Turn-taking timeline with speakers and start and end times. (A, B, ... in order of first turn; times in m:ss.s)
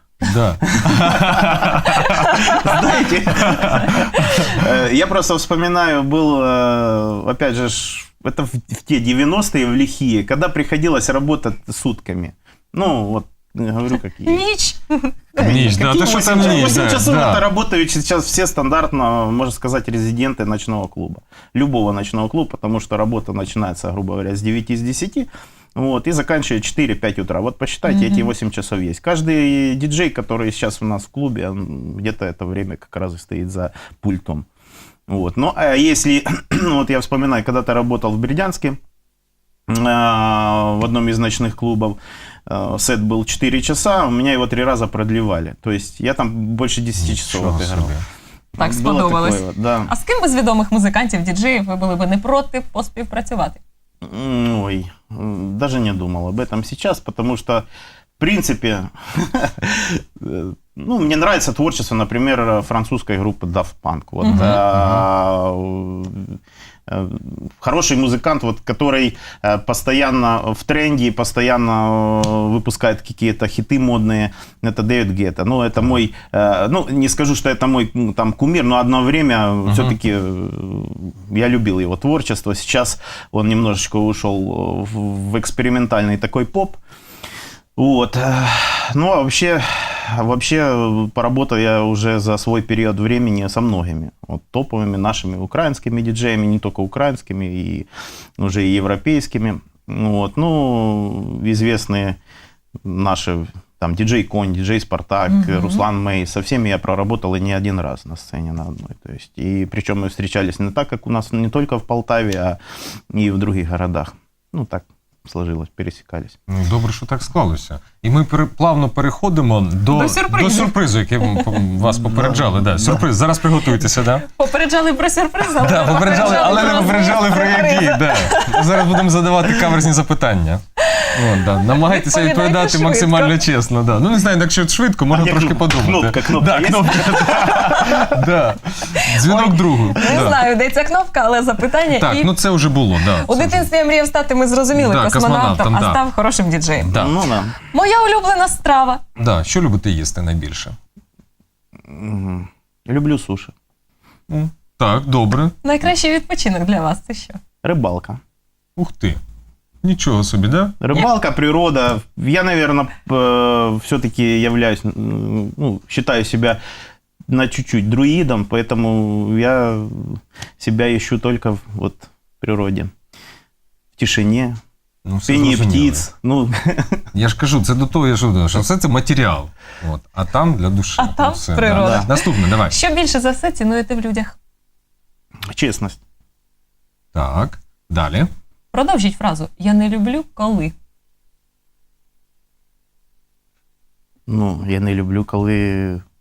0:00.2-0:02.4 A
0:00.6-0:14.4 B
0:02.0-0:02.5 C
0:03.4-0:04.0 A
0:03.9-0:04.5 C
0:14.2-0:17.0 C
0:15.4-0:34.4 B
0:15.4-0:17.4 A
0:27.9-0:28.3 C
0:35.1-0:38.8 B
0:39.7-0:47.9 B
0:47.0-0:48.0 A
0:48.6-0:49.9 B
0:48.6-0:53.6 C
0:54.0-0:57.6 B
0:58.2-1:06.4 B
1:04.2-1:04.6 C
1:04.3-1:05.1 A
1:06.9-1:26.8 B
1:19.7-1:19.9 A
1:27.8-1:37.9 B
1:38.4-1:42.2 B
1:42.8-1:52.6 B
1:45.3-1:45.8 C
1:53.1-1:56.4 B
1:56.5-2:04.2 A
1:59.9-2:01.6 C
2:01.9-2:03.0 B
2:04.2-2:09.0 C
2:05.6-2:10.6 A
2:10.9-2:13.4 C
2:11.1-2:20.5 A
2:15.1-2:18.2 B
2:17.4-2:18.0 C
2:19.0-2:22.3 C
2:21.9-2:23.7 A
2:23.1-2:27.0 C
2:24.7-2:26.0 A
2:26.8-2:27.1 A
2:26.9-2:27.5 B
2:27.7-2:29.0 C
2:29.2-2:30.8 A
2:31.9-2:33.5 B
2:34.3-2:35.5 A
2:35.6-2:37.4 C
2:37.6-2:38.2 B
2:38.8-2:39.2 A
2:39.8-2:41.1 A
2:40.8-2:46.6 B
2:47.3-2:52.9 B
2:54.0-2:54.6 B
2:55.0-2:56.0 A
2:55.3-2:57.0 B
2:57.1-3:02.8 A
3:01.0-3:04.3 C
3:01.8-3:02.1 B
3:05.5-3:06.0 B
3:07.1-3:08.3 A
3:08.7-3:10.7 C
3:14.3-3:16.0 B